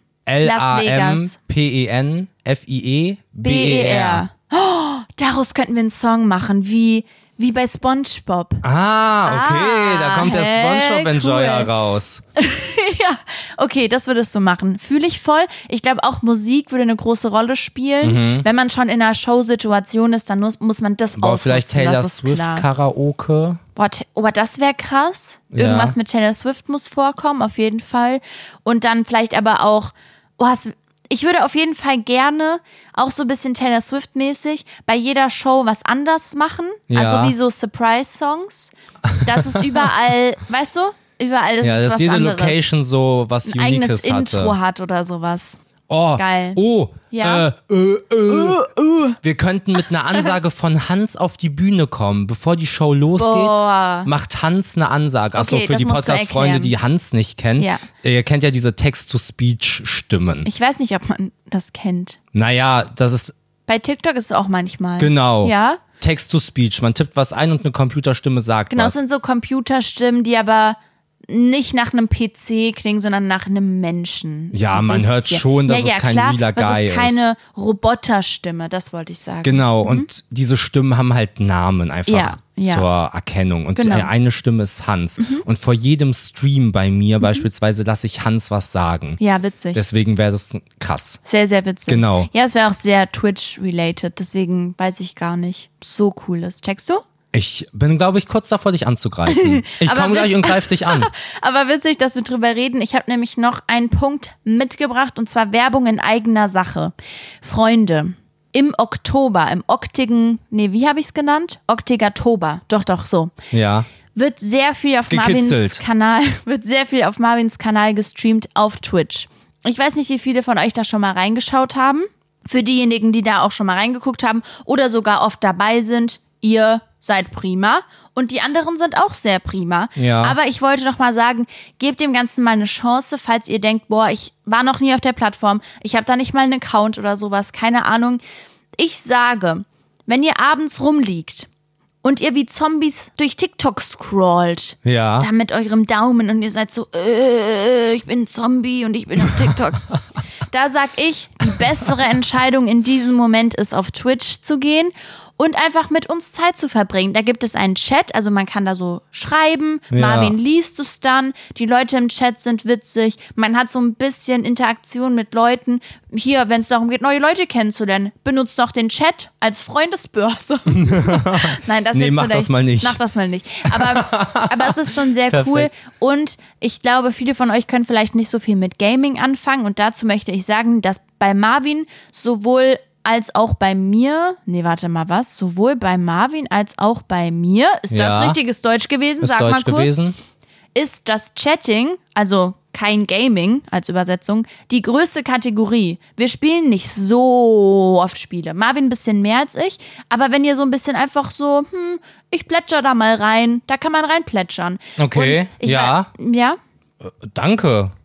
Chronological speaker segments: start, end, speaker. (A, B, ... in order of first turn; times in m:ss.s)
0:00.2-0:04.2 A
0:00.4-0:01.4 B
0:03.4-0:08.6 B
0:08.6-0:12.2 A
0:09.2-0:11.7 B
0:12.4-0:22.6 B
0:18.0-0:18.4 A
0:21.2-0:23.6 A
0:23.8-0:42.6 B
0:25.5-0:26.0 A
0:36.9-0:37.3 A
0:39.1-0:39.9 A
0:41.6-0:44.6 A
0:43.4-0:45.6 B
0:45.9-0:48.7 A
0:46.2-0:46.6 B
0:47.1-0:47.4 B
0:48.3-0:49.2 B
0:49.2-1:00.5 A
0:53.2-0:54.1 B
0:55.3-0:56.7 B
0:57.6-0:57.8 B
1:00.4-1:02.2 B
1:02.3-1:03.3 A
1:03.7-1:05.8 B
1:05.0-1:09.0 A
1:08.7-1:20.1 B
1:14.5-1:17.3 A
1:19.4-1:29.2 A
1:22.1-1:22.8 B
1:23.8-1:24.1 B
1:25.2-1:25.4 B
1:29.2-1:29.8 B
1:29.7-1:31.2 A
1:31.2-1:37.0 B
1:31.9-1:32.3 A
1:37.3-1:41.1 A
1:39.3-1:53.3 B
1:53.5-1:53.9 A
1:54.1-2:18.2 B
1:55.1-1:55.8 A
2:10.0-2:10.4 A
2:18.8-2:21.5 B
2:22.0-2:29.9 B
2:24.8-2:25.3 A
2:30.5-3:09.9 B
2:39.9-2:40.4 A
2:50.7-2:53.0 A
2:53.7-2:55.7 A
3:07.9-3:08.4 A
3:09.2-3:10.2 A
3:10.7-3:26.6 B
3:25.0-3:26.1 A
3:27.0-3:27.9 A